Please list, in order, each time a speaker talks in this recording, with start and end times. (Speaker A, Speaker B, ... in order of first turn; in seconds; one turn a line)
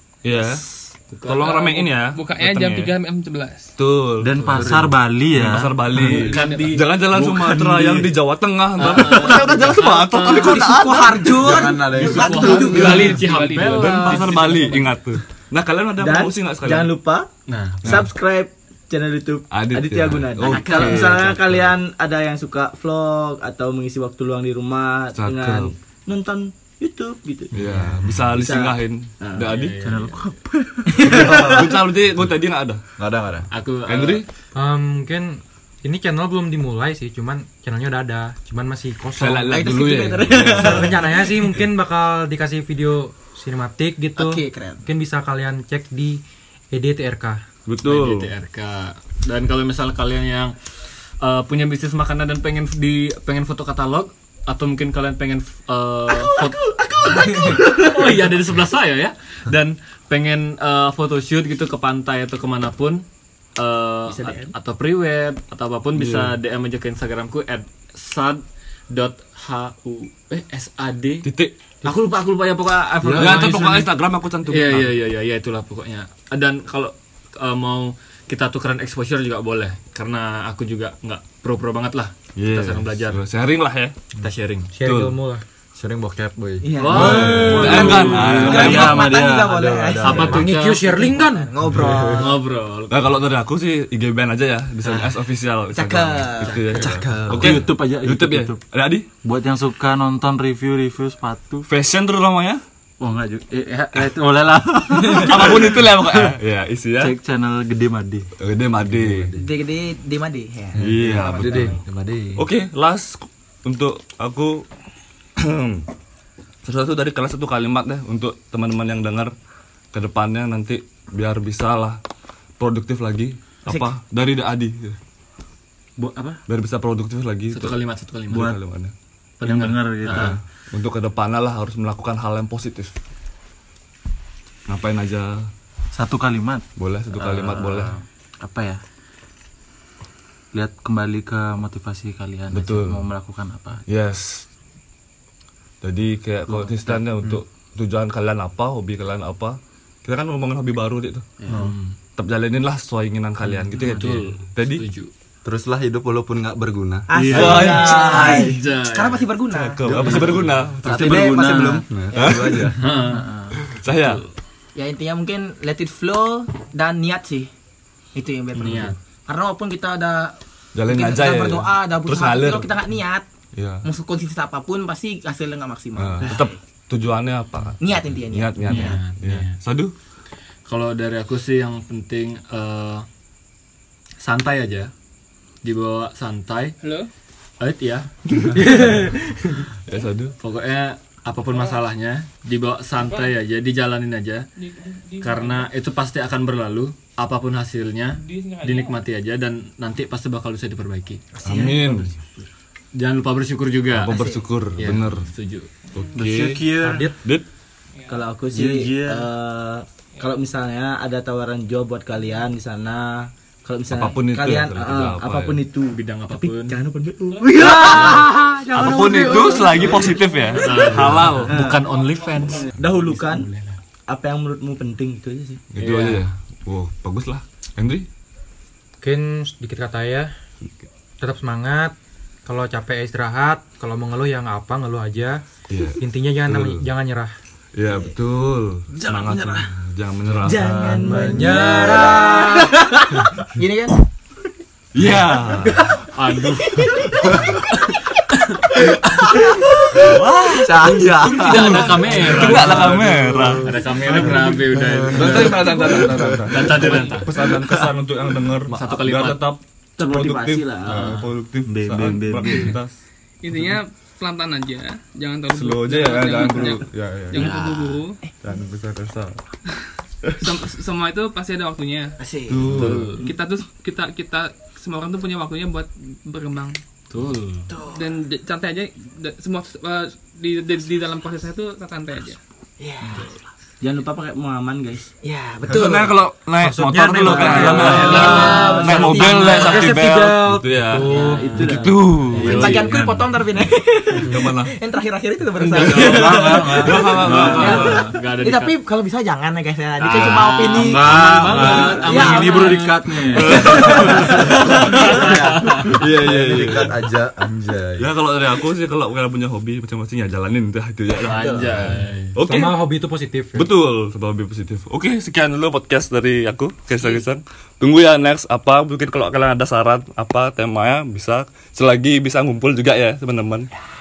Speaker A: 0.2-0.7
Speaker B: 0.7-1.6
Speaker A: 1.2-2.9
Speaker C: 1.5-3.7
Speaker A: 3.8-11.7
Speaker D: 4.2-6.3
Speaker B: 6.0-7.0
Speaker D: 7.1-8.0
Speaker E: 7.3-7.9
Speaker B: 8.8-10.7
Speaker F: 10.3-13.2
Speaker E: 11.3-13.2
Speaker B: 11.8-15.0
Speaker G: 12.0-13.2
Speaker C: 12.5-14.3
Speaker A: 12.8-16.9
Speaker G: 16.0-17.3
Speaker B: 17.5-18.1
Speaker G: 17.8-29.5
Speaker A: 17.8-18.1
Speaker A: 19.5-21.6
Speaker D: 20.4-21.4
Speaker A: 25.1-25.8
Speaker A: 27.5-29.9
Speaker B: 29.5-30.2
Speaker D: 29.8-31.2
Speaker A: 31.0-32.8
Speaker F: 31.1-31.6
Speaker E: 33.0-33.5
Speaker B: 33.5-34.2
Speaker A: 33.9-34.3
Speaker H: 34.5-39.6
Speaker A: 39.2-41.0
Speaker F: 39.5-41.1
Speaker H: 40.5-47.4
Speaker F: 44.2-44.8
Speaker A: 47.7-48.3
Speaker B: 47.9-50.6
Speaker B: 51.2-56.6
Speaker G: 56.2-58.2
Speaker F: 57.0-57.6
Speaker B: 57.1-63.0
Speaker B: 63.6-71.3
Speaker G: 64.1-64.5
Speaker A: 66.0-66.3
Speaker A: 71.2-71.5
Speaker B: 71.8-73.9
Speaker A: 73.1-75.0
Speaker H: 73.2-73.6
Speaker B: 74.5-83.2
Speaker A: 82.4-83.9
Speaker B: 84.2-84.7
Speaker H: 84.8-85.4
Speaker A: 84.8-85.2
Speaker E: 85.8-88.6
Speaker G: 86.6-88.8
Speaker B: 86.8-88.4
Speaker F: 86.8-92.4
Speaker A: 86.9-89.1
Speaker D: 87.1-90.4
Speaker E: 89.7-90.3
Speaker B: 90.0-90.9
Speaker H: 90.3-91.5
Speaker E: 91.6-92.3
Speaker B: 92.2-93.2
Speaker A: 92.9-99.1
Speaker F: 95.7-96.6
Speaker B: 96.4-97.0
Speaker E: 96.7-97.6
Speaker D: 97.2-98.6
Speaker D: 99.2-101.7
Speaker A: 101.7-102.6
Speaker D: 103.0-106.3
Speaker A: 105.1-107.2
Speaker D: 107.0-108.3
Speaker A: 108.4-109.3
Speaker E: 109.0-109.3
Speaker F: 109.4-111.7
Speaker A: 110.8-111.8
Speaker E: 110.8-112.5
Speaker D: 111.0-111.3
Speaker A: 112.3-114.7
Speaker A: 115.4-115.8
Speaker A: 116.6-119.3
Speaker A: 119.9-122.0
Speaker A: 122.6-125.0
Speaker D: 126.0-126.4
Speaker A: 126.5-127.8
Speaker B: 127.5-128.5
Speaker A: 128.3-128.9
Speaker D: 128.3-128.6
Speaker B: 129.4-130.3
Speaker D: 129.4-130.4
Speaker A: 130.1-132.9
Speaker A: 134.7-135.5
Speaker D: 135.9-138.8
Speaker A: 136.8-138.0
Speaker D: 140.5-143.8
Speaker A: 142.5-143.1
Speaker A: 143.9-144.5
Speaker A: 145.8-151.3
Speaker D: 146.5-147.1
Speaker B: 151.5-151.9
Speaker A: 152.2-154.8
Speaker B: 153.8-155.1
Speaker E: 155.4-157.1
Speaker F: 157.1-160.4
Speaker G: 157.2-158.6
Speaker B: 157.2-159.3
Speaker A: 157.3-158.2
Speaker A: 159.6-161.4
Speaker E: 159.8-162.8
Speaker D: 160.8-161.9
Speaker A: 162.1-162.8
Speaker B: 162.8-163.3
Speaker D: 162.9-163.6
Speaker A: 163.6-164.2
Speaker F: 164.8-167.5
Speaker F: 168.2-173.3
Speaker B: 168.6-169.0
Speaker A: 170.7-172.7
Speaker A: 173.6-173.9
Speaker F: 173.8-176.6
Speaker A: 176.0-179.9
Speaker F: 177.8-179.0
Speaker B: 178.7-179.6
Speaker B: 180.7-183.1
Speaker B: 184.2-184.9
Speaker B: 185.6-186.8
Speaker C: 186.8-187.1
Speaker B: 187.6-188.7
Speaker A: 188.3-189.1
Speaker A: 189.9-190.4
Speaker B: 190.4-194.5
Speaker C: 191.5-191.8
Speaker C: 193.0-193.4
Speaker C: 194.6-195.7
Speaker B: 195.2-201.2
Speaker C: 198.2-199.0
Speaker F: 201.4-202.0
Speaker A: 201.4-202.1
Speaker B: 202.9-204.2
Speaker A: 203.9-205.3
Speaker F: 204.1-204.5
Speaker B: 204.8-205.7
Speaker A: 205.9-206.6
Speaker C: 205.9-206.3
Speaker D: 206.2-207.2
Speaker H: 206.8-207.2
Speaker A: 207.2-207.5
Speaker C: 208.0-208.2
Speaker G: 208.1-220.9
Speaker D: 208.5-209.3
Speaker A: 213.9-215.6
Speaker B: 215.9-216.8
Speaker C: 217.4-217.7
Speaker D: 217.8-219.3
Speaker B: 217.9-218.3
Speaker A: 218.7-221.6
Speaker B: 220.6-223.7
Speaker G: 221.5-221.8
Speaker G: 222.7-223.5
Speaker G: 224.1-225.6
Speaker A: 225.7-228.1
Speaker B: 225.8-226.2
Speaker H: 229.0-230.3
Speaker H: 231.2-231.9
Speaker H: 232.4-235.4
Speaker A: 235.7-236.8
Speaker H: 236.0-237.3
Speaker A: 237.8-241.1
Speaker G: 238.9-239.7
Speaker G: 240.4-243.2
Speaker H: 240.7-242.7
Speaker F: 241.5-242.2
Speaker F: 243.5-244.0
Speaker A: 244.9-245.9
Speaker B: 246.1-246.9
Speaker A: 250.0-254.5
Speaker E: 250.6-254.6
Speaker B: 251.3-257.4
Speaker A: 255.0-263.0
Speaker E: 255.4-256.4
Speaker B: 258.7-259.4
Speaker G: 260.0-261.2
Speaker B: 260.8-261.3
Speaker D: 261.6-262.8
Speaker C: 263.4-268.2
Speaker A: 265.5-267.4
Speaker G: 267.4-267.9
Speaker D: 267.6-267.9
Speaker A: 268.4-269.4
Speaker C: 270.4-272.2
Speaker F: 272.2-272.9
Speaker A: 272.5-273.2
Speaker B: 272.7-273.3
Speaker C: 273.1-276.8
Speaker B: 277.1-277.7
Speaker C: 277.9-282.4
Speaker F: 282.8-283.3
Speaker G: 283.8-285.1
Speaker F: 285.2-286.2
Speaker A: 285.7-293.3
Speaker H: 286.6-291.4
Speaker G: 287.2-289.7
Speaker F: 287.6-290.0
Speaker B: 288.0-288.6
Speaker G: 291.0-292.7
Speaker B: 292.3-293.0
Speaker F: 292.4-302.8
Speaker A: 294.2-294.8
Speaker B: 295.6-298.8
Speaker A: 295.8-298.1
Speaker D: 295.8-298.1
Speaker B: 300.0-305.9
Speaker D: 300.2-304.4
Speaker A: 303.3-307.0
Speaker F: 303.7-304.6
Speaker E: 305.0-308.1
Speaker A: 308.0-312.8
Speaker B: 311.2-312.4
Speaker G: 311.3-311.6
Speaker H: 312.4-313.7
Speaker A: 313.5-323.7